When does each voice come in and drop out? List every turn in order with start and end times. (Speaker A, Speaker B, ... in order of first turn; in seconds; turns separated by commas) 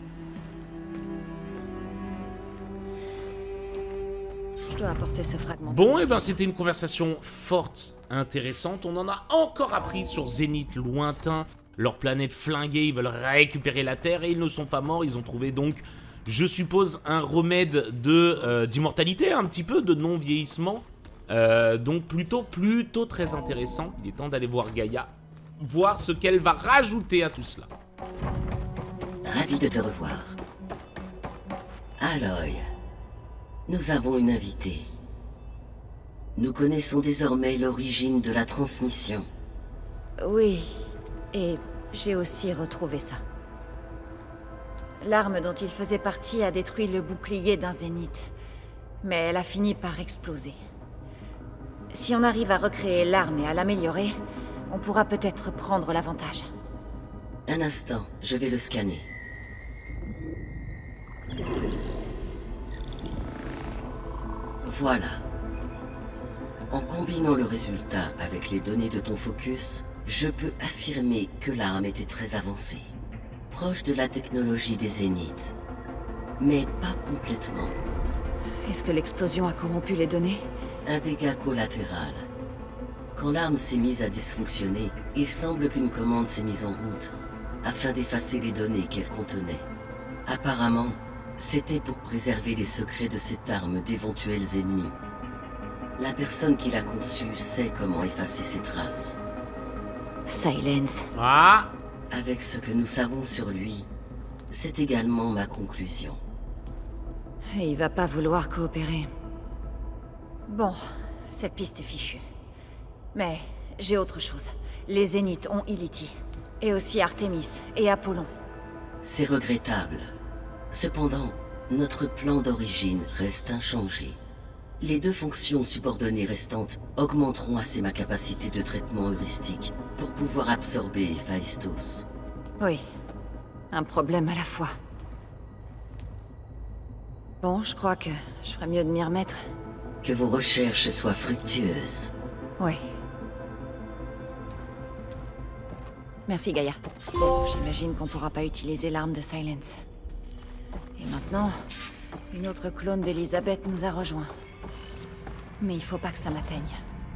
Speaker A: 4.7-6.2, Speaker B: 5.7-27.7, Speaker C: 29.2-30.4, Speaker C: 32.0-32.7, Speaker C: 33.7-34.9, Speaker C: 36.4-39.3, Speaker A: 40.2-43.2, Speaker A: 45.0-48.3, Speaker A: 49.0-50.6, Speaker A: 51.9-54.2, Speaker A: 54.7-56.5, Speaker C: 57.5-59.1, Speaker C: 64.6-65.2, Speaker C: 66.7-72.9, Speaker C: 73.5-75.5, Speaker C: 76.4-77.8, Speaker A: 78.7-80.5, Speaker C: 80.8-82.3, Speaker C: 83.2-89.7, Speaker C: 90.2-95.0, Speaker C: 96.0-99.2, Speaker A: 100.3-101.1, Speaker B: 101.2-101.7, Speaker C: 102.1-103.9, Speaker C: 104.5-106.2, Speaker A: 107.5-109.1, Speaker A: 110.5-112.2, Speaker A: 113.1-118.3, Speaker C: 119.0-120.1, Speaker C: 120.7-124.2, Speaker C: 124.8-132.1, Speaker A: 133.7-134.7, Speaker A: 137.4-139.4, Speaker C: 140.0-142.1, Speaker A: 146.3-149.8, Speaker A: 151.0-151.6, Speaker A: 152.3-154.3, Speaker A: 155.6-156.8